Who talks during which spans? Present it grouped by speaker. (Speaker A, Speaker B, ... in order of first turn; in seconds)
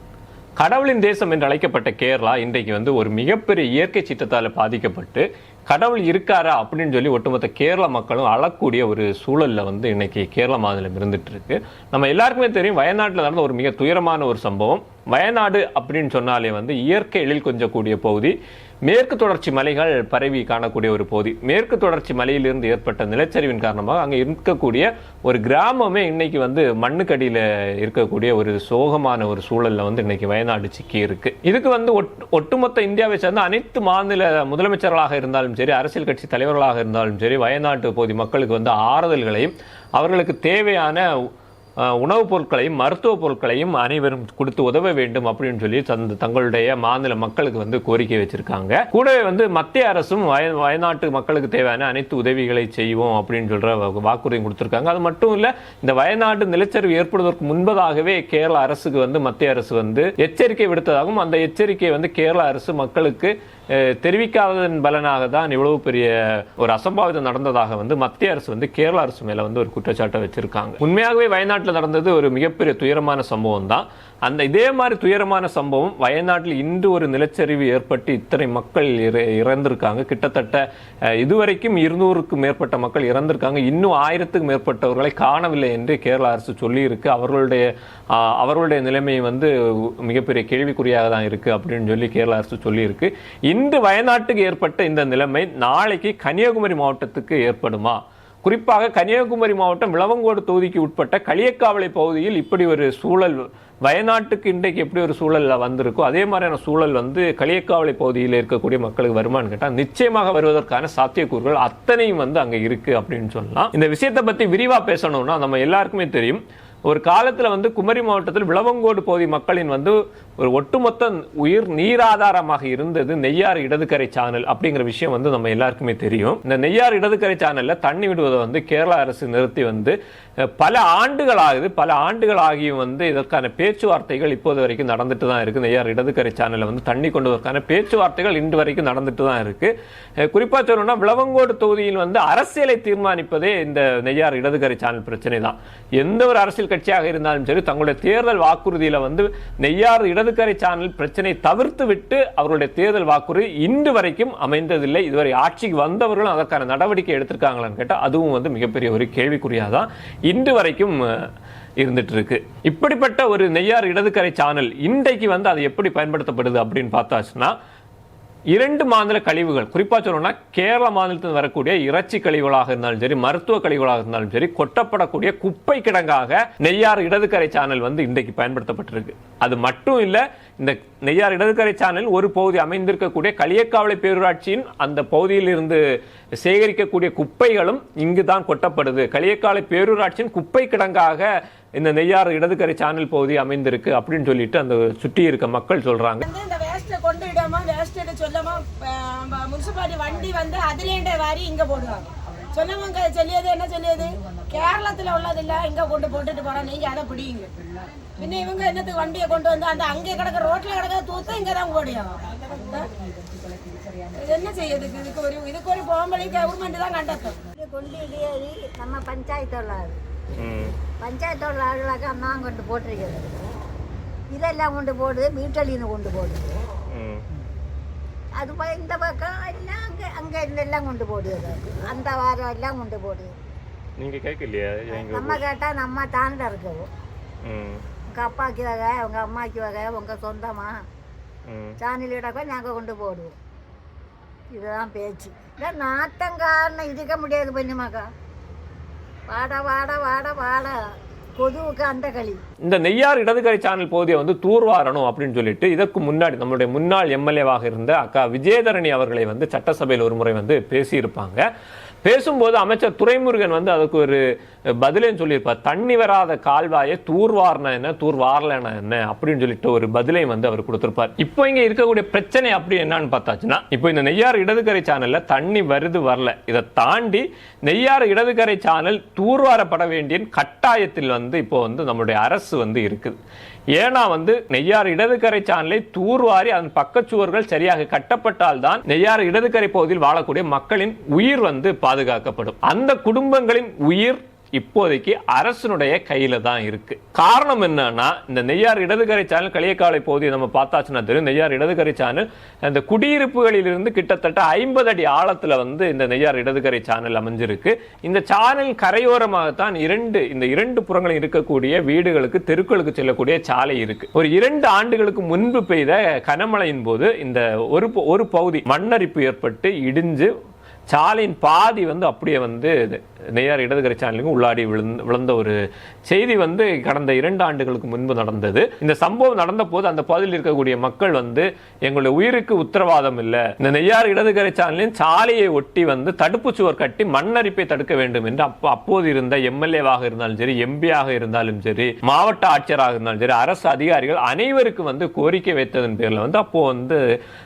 Speaker A: 0.6-167.6, 168.5-185.8, 186.4-196.2, 220.4-220.7, 226.9-227.2, 234.0-235.4, 237.4-237.8, 241.5-241.8, 252.6-261.5, 262.0-264.2, 264.8-283.2, 283.7-320.3, 320.9-347.0
Speaker B: 196.2-207.5, 208.2-212.9, 214.1-217.4
Speaker C: 217.5-220.0, 221.0-223.4, 224.3-226.6, 228.4-233.3, 234.9-236.9, 238.1-240.8, 241.8-243.3, 244.5-248.1, 249.3-250.8, 251.4-252.4